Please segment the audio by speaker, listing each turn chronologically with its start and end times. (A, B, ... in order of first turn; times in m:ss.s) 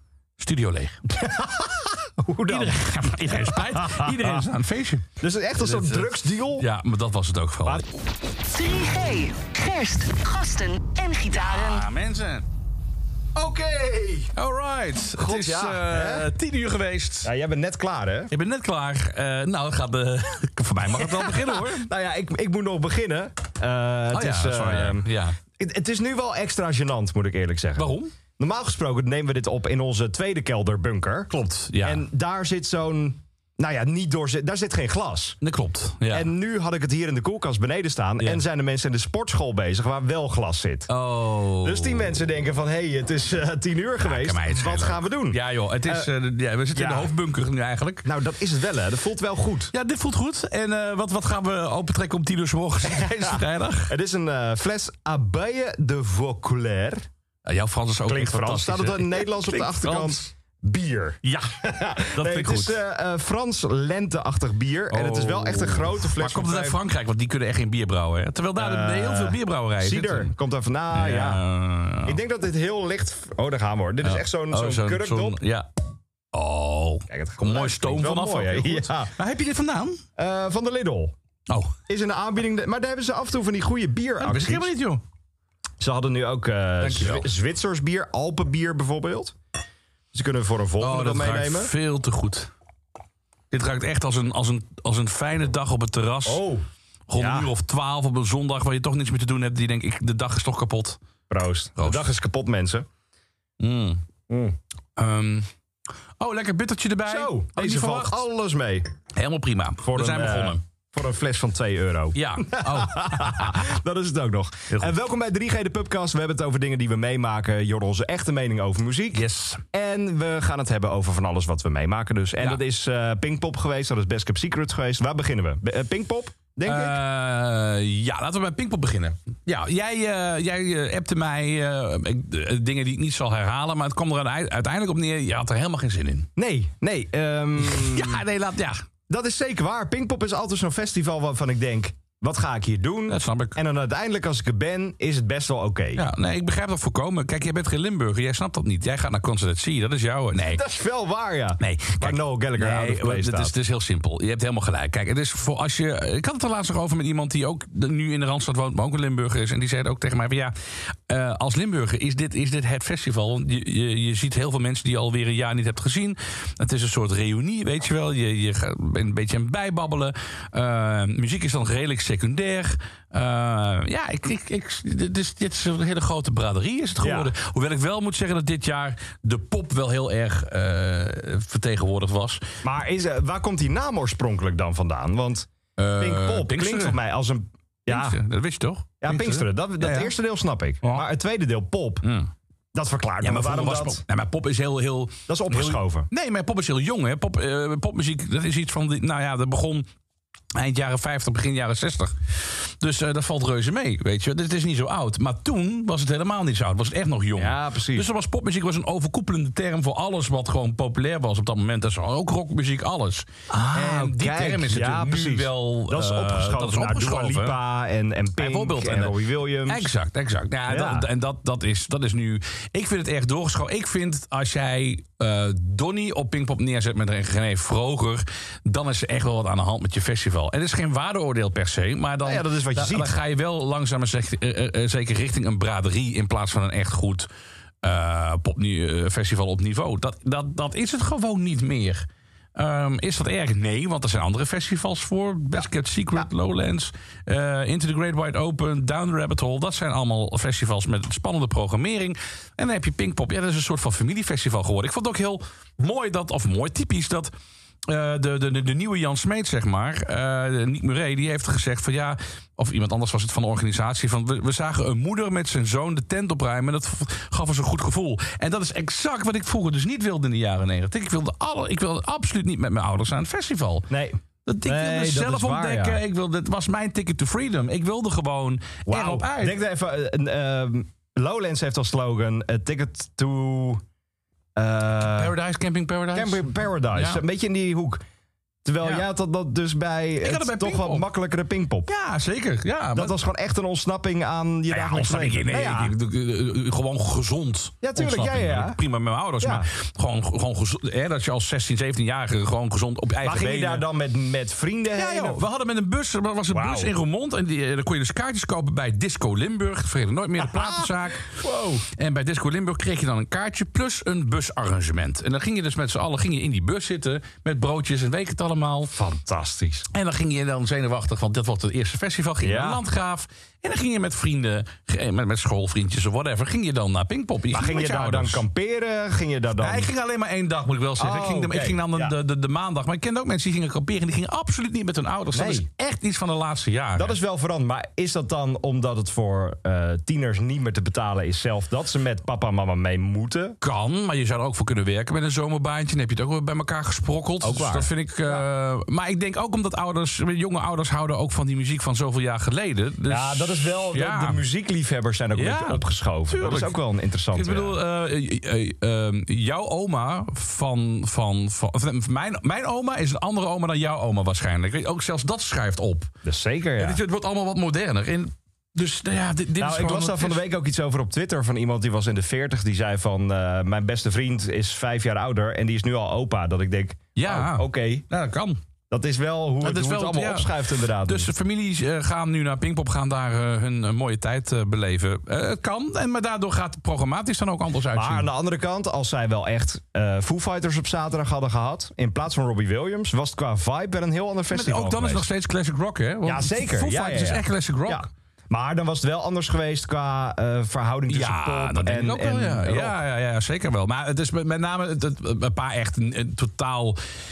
0:00.4-0:01.0 A
0:01.1-0:04.5 B
0:02.5-0:07.8 A
0:05.2-0:06.7 B
0:08.4-0:11.8 C
0:11.3-0:12.4 A
0:13.3-0:14.3 B
0:14.3-0:17.3 A
0:15.2-0:16.3 B
0:17.2-0:18.3 B
0:18.3-0:21.9 A
0:20.8-0:35.4 B
0:24.1-0:25.4 A
0:27.8-0:28.1 A
0:31.3-0:32.0 A
0:35.4-0:36.3 A
0:36.1-0:40.9 B
0:40.9-0:42.2 A
0:41.6-0:46.1 B
0:44.0-0:48.1 A
0:46.7-0:47.1 B
0:48.0-0:49.7 B
0:49.7-0:53.9 A
0:52.9-0:57.0 B
0:57.4-1:00.2 A
0:58.1-1:06.8 B
1:01.2-1:01.5 A
1:02.1-1:02.8 A
1:04.9-1:10.3 A
1:08.6-1:11.4 B
1:10.9-1:12.2 A
1:12.0-1:15.4 B
1:14.0-1:15.7 A
1:16.3-1:20.0 A
1:17.1-1:19.1 B
1:20.2-1:21.1 B
1:21.5-1:21.8 A
1:21.9-1:24.7 B
1:24.2-1:25.0 A
1:25.8-1:29.3 B
1:26.8-1:27.3 A
1:30.1-1:31.7 B
1:30.8-1:32.5 A
1:33.5-1:36.4 A
1:36.2-1:36.6 B
1:37.1-1:41.0 A
1:37.2-1:37.5 B
1:41.3-1:42.8 B
1:41.8-1:42.1 A
1:43.6-1:44.0 A
1:44.3-1:44.6 B
1:45.0-1:45.5 A
1:46.2-1:48.2 A
1:47.0-1:48.8 B
1:49.1-1:50.6 A
1:49.8-2:07.0 B
1:52.1-1:53.7 A
1:59.1-1:59.6 A
2:06.6-2:16.3 A
2:16.4-2:18.2 B
2:17.6-2:18.8 A
2:19.1-2:26.0 B
2:23.1-2:23.6 A
2:26.0-2:30.6 A
2:30.5-2:33.5 B
2:31.6-3:02.4 A
2:57.0-2:57.3 B
3:02.6-3:08.2 B
3:05.8-3:07.0 A
3:07.9-3:10.1 A
3:09.0-3:12.0 B
3:12.0-3:12.3 A
3:12.7-3:14.0 B
3:13.2-3:19.9 A
3:15.3-3:16.1 B
3:20.5-3:37.6 A
3:27.4-3:28.1 B
3:33.5-3:39.9 B
3:38.4-3:57.3 A
3:40.7-3:41.1 B
3:52.2-3:53.1 B
3:57.8-4:17.3 A
4:17.9-4:33.9 A
4:33.9-4:36.0 B
4:34.4-4:39.6 A
4:38.8-4:43.8 B
4:44.6-4:45.3 B
4:45.0-4:47.2 A
4:46.1-4:48.0 B
4:48.6-4:51.9 B
4:50.2-4:51.0 A
4:51.9-4:53.2 A
4:52.9-4:55.9 B
4:54.7-5:03.9 A
4:57.8-4:58.8 B
4:59.4-4:59.7 B
5:03.2-5:05.4 B
5:04.9-5:18.9 A
5:06.5-5:06.9 B
5:10.4-5:11.8 B
5:18.9-5:19.9 B
5:19.9-5:28.4 A
5:22.4-5:22.8 B
5:27.5-5:29.9 B
5:29.6-5:37.1 A
5:31.0-5:32.1 B
5:35.3-5:35.7 B
5:37.0-5:43.6 B
5:43.6-5:54.4 A
5:47.4-5:48.5 B
5:53.1-5:57.8 B
5:55.3-5:56.8 A
5:57.3-6:06.1 A
6:06.2-6:07.0 B
6:06.8-6:10.4 A
6:09.6-6:18.0 B
6:17.1-6:18.6 A
6:18.9-6:21.3 B
6:19.6-6:28.3 A
6:27.9-6:35.2 B
6:34.5-6:38.1 A
6:36.2-6:42.9 B
6:41.1-6:47.0 A